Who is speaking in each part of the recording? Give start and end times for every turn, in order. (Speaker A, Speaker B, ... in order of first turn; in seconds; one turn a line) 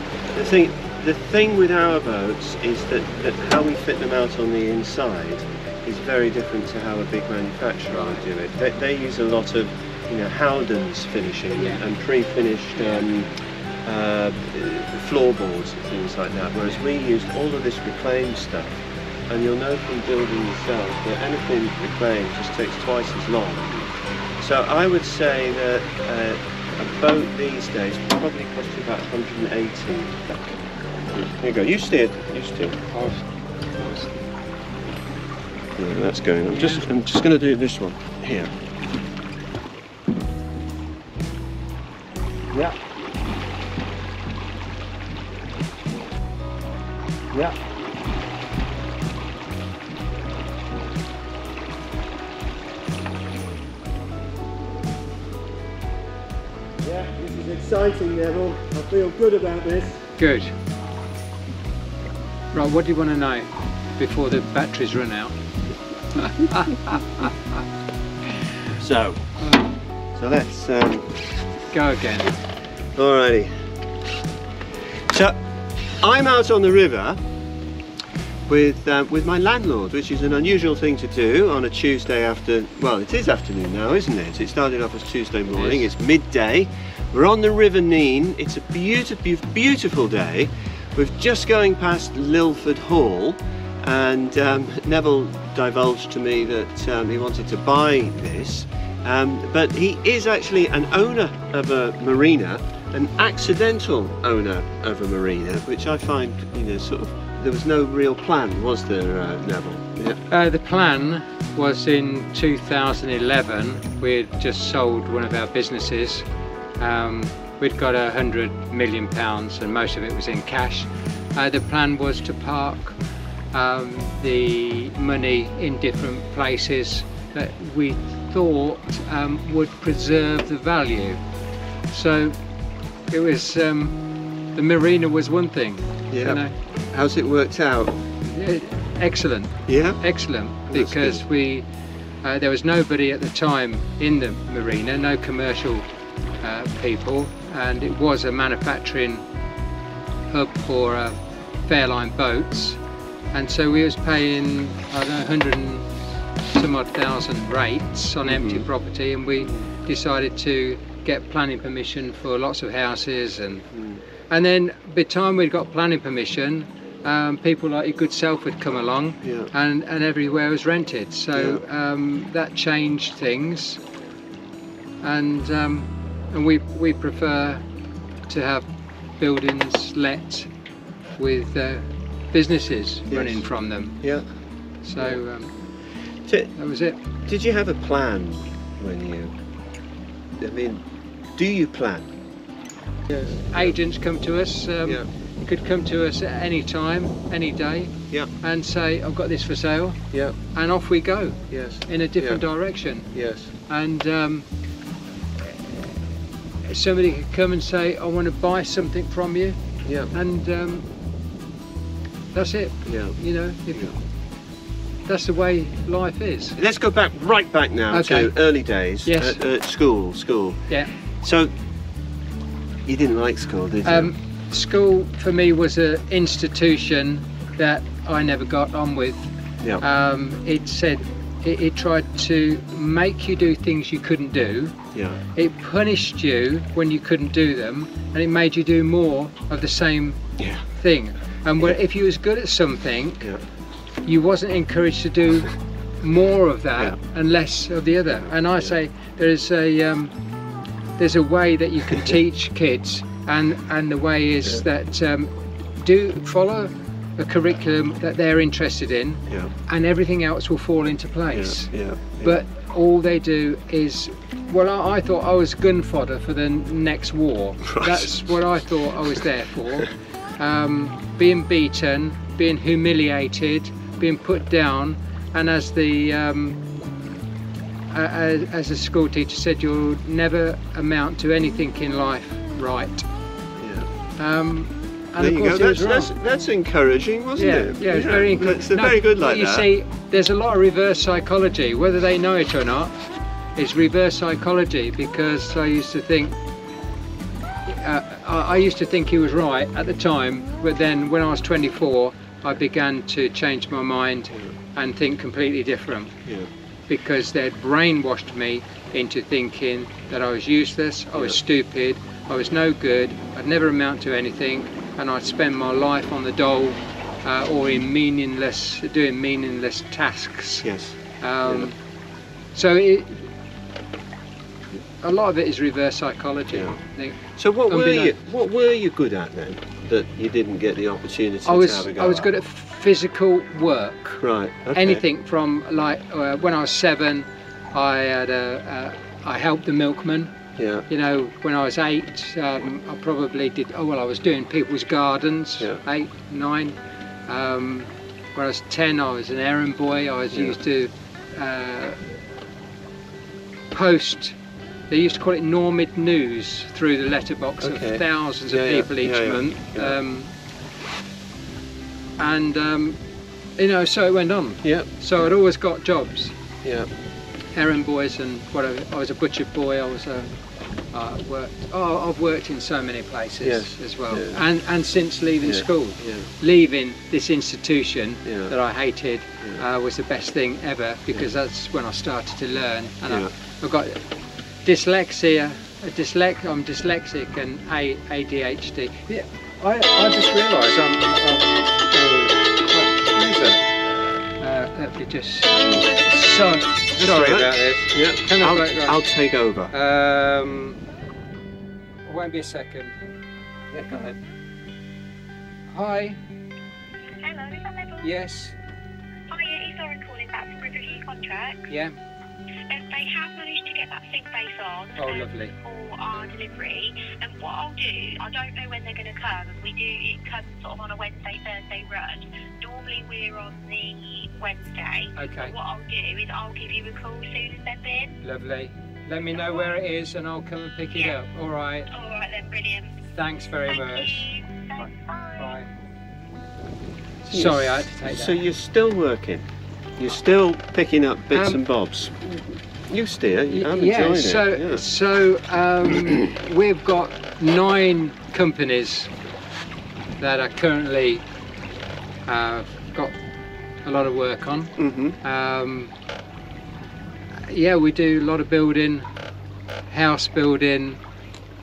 Speaker A: 0.3-13.3
Speaker B: 7.9-8.2
Speaker B: 11.6-11.8
Speaker B: 12.8-13.0
Speaker A: 13.8-23.8
Speaker A: 24.4-32.9
Speaker B: 32.9-34.2
Speaker A: 35.8-38.5
Speaker B: 36.5-36.9
Speaker A: 56.8-60.1
Speaker B: 60.2-60.5
Speaker B: 62.5-65.3
Speaker B: 66.2-67.3
Speaker A: 68.8-69.3
Speaker B: 69.4-69.7
Speaker A: 70.2-71.2
Speaker B: 71.7-72.4
Speaker A: 73.0-73.5
Speaker A: 75.1-75.4
Speaker A: 76.0-77.2
Speaker A: 78.5-110.2
Speaker B: 85.5-85.9
Speaker B: 110.3-116.2
Speaker B: 116.8-123.0
Speaker B: 123.5-131.2
Speaker B: 131.9-132.4
Speaker B: 133.1-134.0
Speaker B: 134.5-136.5
Speaker A: 136.1-136.4
Speaker A: 136.9-138.0
Speaker B: 138.2-141.7
Speaker A: 139.7-140.0
Speaker A: 140.7-141.2
Speaker B: 142.2-145.9
Speaker B: 146.4-149.2
Speaker B: 150.3-152.8
Speaker B: 153.3-155.9
Speaker B: 156.5-163.7
Speaker A: 158.2-158.7
Speaker A: 159.4-159.7
Speaker A: 163.7-164.0
Speaker B: 164.3-173.8
Speaker A: 169.2-169.5
Speaker A: 171.3-171.6
Speaker B: 175.0-177.6
Speaker B: 178.3-178.7
Speaker B: 179.2-180.5
Speaker B: 181.2-184.0
Speaker A: 183.1-183.4
Speaker A: 184.0-184.3
Speaker B: 184.8-185.7
Speaker A: 186.3-186.5
Speaker B: 186.6-187.0
Speaker A: 187.3-189.3
Speaker A: 190.4-190.8
Speaker A: 191.3-192.1
Speaker A: 193.1-193.8
Speaker B: 193.5-203.1
Speaker A: 200.1-200.4
Speaker A: 201.5-202.4
Speaker A: 203.1-203.5
Speaker B: 203.7-204.5
Speaker B: 205.5-205.8
Speaker B: 206.6-209.6
Speaker A: 209.8-210.1
Speaker B: 210.1-210.9
Speaker B: 212.3-214.0
Speaker A: 212.8-213.2
Speaker B: 215.1-216.6
Speaker A: 216.6-220.7
Speaker B: 217.9-218.3
Speaker B: 219.1-219.4
Speaker A: 221.2-221.5
Speaker A: 222.9-224.1
Speaker B: 223.8-234.8
Speaker A: 234.9-235.2
Speaker B: 235.3-243.3
Speaker A: 240.4-240.6
Speaker B: 244.1-250.1
Speaker A: 248.2-248.7
Speaker B: 251.0-276.7
Speaker A: 261.3-262.4
Speaker A: 267.6-268.4
Speaker B: 277.9-283.1
Speaker A: 283.6-283.9
Speaker B: 284.2-286.1
Speaker A: 285.2-289.7
Speaker B: 287.4-292.9
Speaker B: 293.6-296.4
Speaker B: 297.7-306.2
Speaker B: 306.9-320.7
Speaker A: 311.1-311.4
Speaker A: 320.6-321.7
Speaker B: 321.2-321.8
Speaker B: 322.5-323.3
Speaker B: 324.7-328.1
Speaker A: 326.5-326.8
Speaker A: 327.4-332.3
Speaker B: 331.4-334.2
Speaker A: 334.2-335.0
Speaker B: 334.7-340.3
Speaker A: 340.6-340.9
Speaker B: 340.9-352.1
Speaker B: 353.7-354.4
Speaker B: 354.9-360.3
Speaker A: 357.6-360.0
Speaker B: 362.2-363.0
Speaker B: 363.6-366.3
Speaker A: 364.6-364.9
Speaker A: 366.6-366.9
Speaker B: 367.6-370.3
Speaker B: 370.9-384.1
Speaker A: 373.4-374.4
Speaker A: 375.4-376.3
Speaker A: 378.2-378.5
Speaker B: 384.6-393.7
Speaker B: 394.4-399.0
Speaker A: 397.0-399.7
Speaker B: 399.7-400.8
Speaker B: 402.1-403.0
Speaker A: 403.7-404.1
Speaker B: 403.8-404.2
Speaker B: 405.7-406.2
Speaker C: 407.2-408.1
Speaker B: 408.0-408.6
Speaker C: 409.3-411.7
Speaker B: 411.7-411.9
Speaker C: 412.7-428.2
Speaker B: 415.0-415.5
Speaker B: 425.2-425.5
Speaker B: 428.2-431.9
Speaker C: 429.4-429.7
Speaker C: 431.9-433.0
Speaker B: 433.1-434.3
Speaker C: 433.7-435.6
Speaker B: 434.8-435.7
Speaker A: 437.3-439.5
Speaker B: 437.3-438.4
Speaker A: 440.0-444.8
Speaker B: 441.3-441.6
Speaker B: 443.5-449.1
Speaker A: 445.9-446.3
Speaker B: 450.2-451.2
Speaker B: 452.3-453.2
Speaker B: 453.8-455.9
Speaker A: 454.8-455.2
Speaker B: 457.5-459.1
Speaker B: 459.9-461.0